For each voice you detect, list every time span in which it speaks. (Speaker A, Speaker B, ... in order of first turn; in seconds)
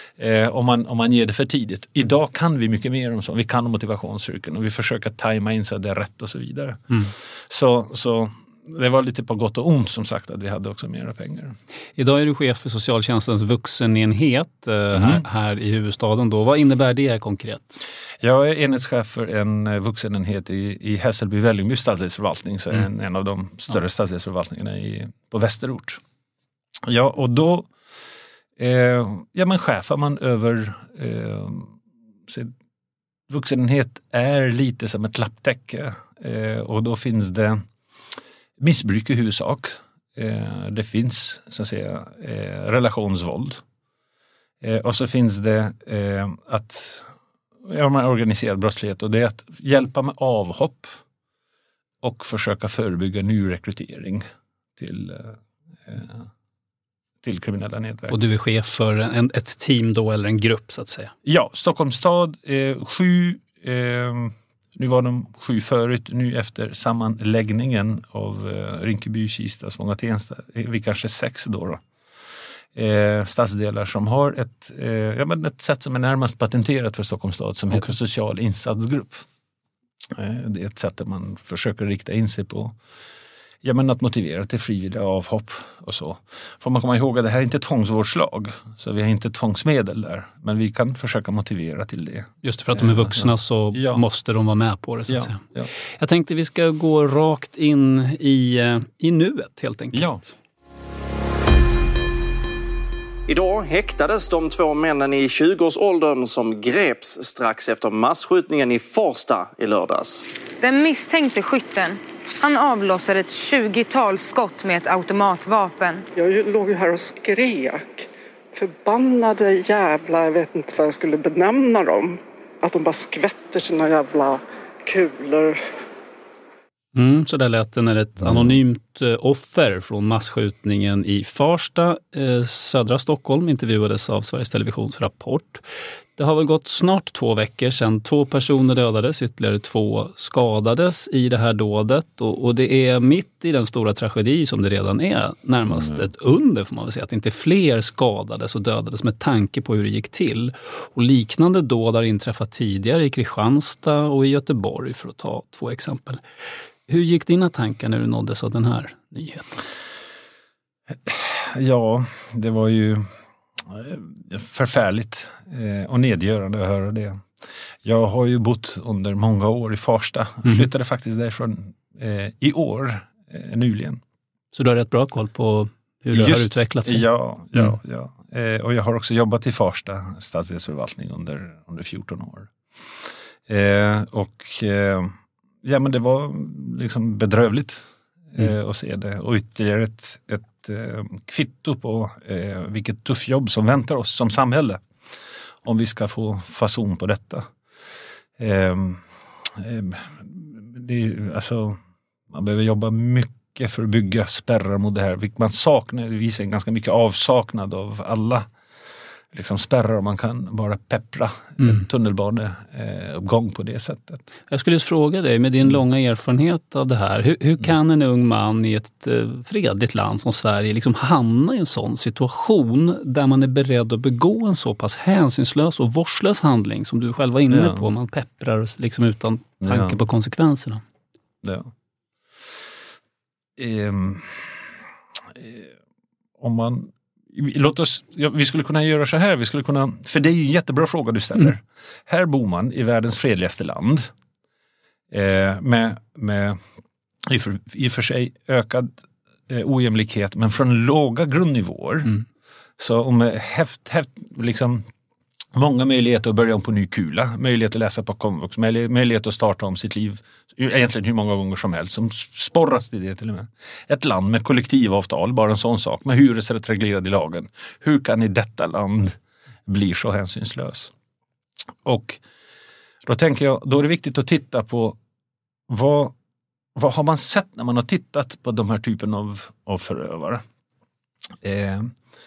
Speaker A: 0.2-11.6, 14.9-15.2, 18.2-26.0, 26.9-27.7, 28.6-31.7, 32.3-32.5, 33.3-37.6, 38.6-43.6, 44.6-47.1, 47.6-51.0, 52.0-54.2, 54.8-56.3, 57.2-58.1, 61.2-71.8, 72.8-79.2, 80.1-82.8, 83.6-94.0, 95.1-95.7, 99.9-100.2, 128.2-128.5, 161.1-163.1, 163.7-167.3, 167.8-174.0, 176.1-182.5, 183.5-187.8, 188.3-194.8, 195.6-197.5, 198.4-201.8, 202.3-208.5, 209.3-214.2, 227.5-227.9, 229.6-230.0, 231.4-231.7, 233.6-234.7, 235.3-235.7, 236.4-244.1, 245.1-246.6, 247.2-249.0, 249.5-252.2, 252.8-254.9, 255.5-270.9, 271.8-272.2, 273.1-275.0, 275.7-276.1, 276.8-280.4, 281.4-281.9
Speaker B: 12.0-17.8, 58.1-61.1, 92.4-95.4, 96.0-100.3, 127.0-135.6, 136.2-156.2, 156.9-159.6, 174.5-177.0, 214.5-230.8
Speaker C: 103.3-110.3
Speaker D: 110.6-116.0
Speaker E: 116.2-125.6